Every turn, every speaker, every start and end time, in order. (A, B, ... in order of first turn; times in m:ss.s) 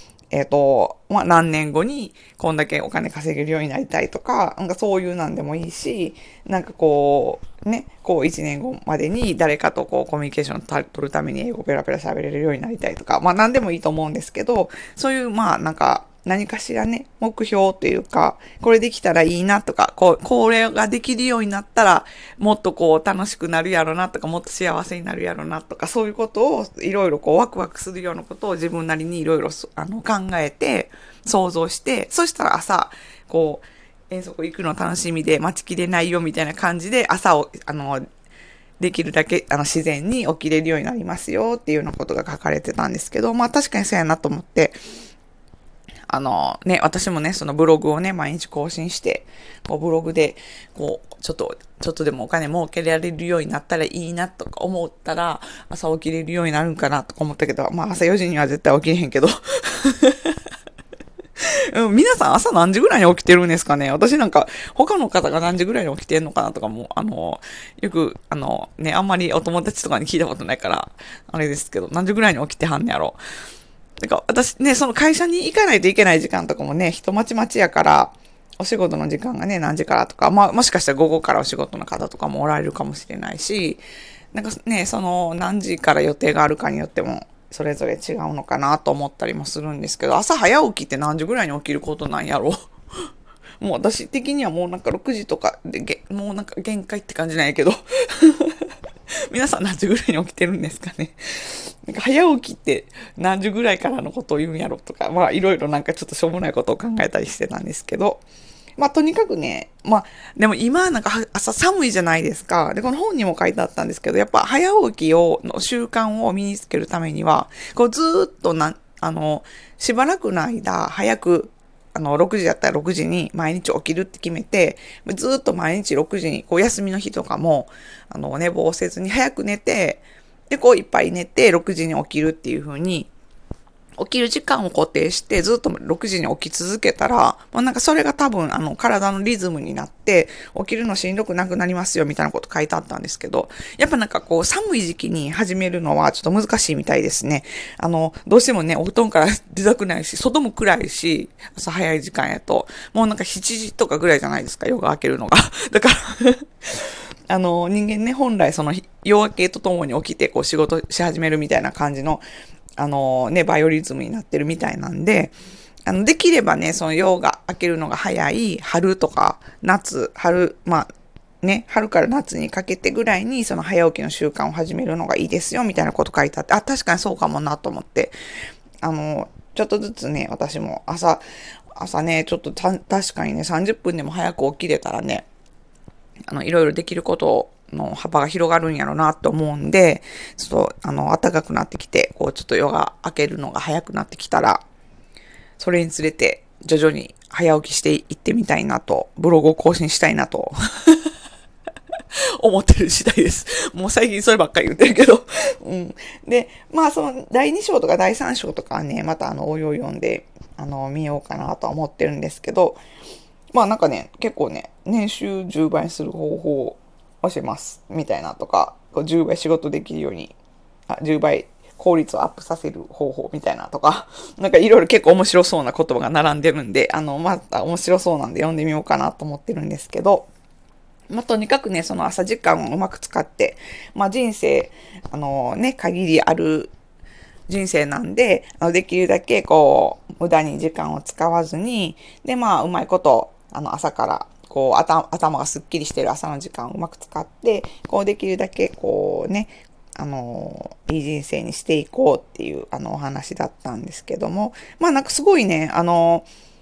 0:00.3-0:38.0 A
0:38.8-0:44.8 A
0:46.1-1:00.4 A
1:01.4-1:13.2 A
1:14.0-1:23.8 A
1:24.3-1:32.7 A
1:33.6-1:38.7 A
1:39.3-1:48.2 A
1:48.8-2:13.1 A
2:14.0-2:42.2 A
2:42.8-2:45.3 A
2:45.9-2:50.9 A
2:51.4-2:58.1 A
2:58.8-3:01.2 A
3:01.8-3:05.2 A
3:06.3-3:14.6 A
3:15.6-3:21.1 A
3:22.1-3:32.8 A
3:33.5-3:40.3 A
3:40.9-3:50.3 A
3:51.1-3:56.7 A
3:57.5-4:16.3 A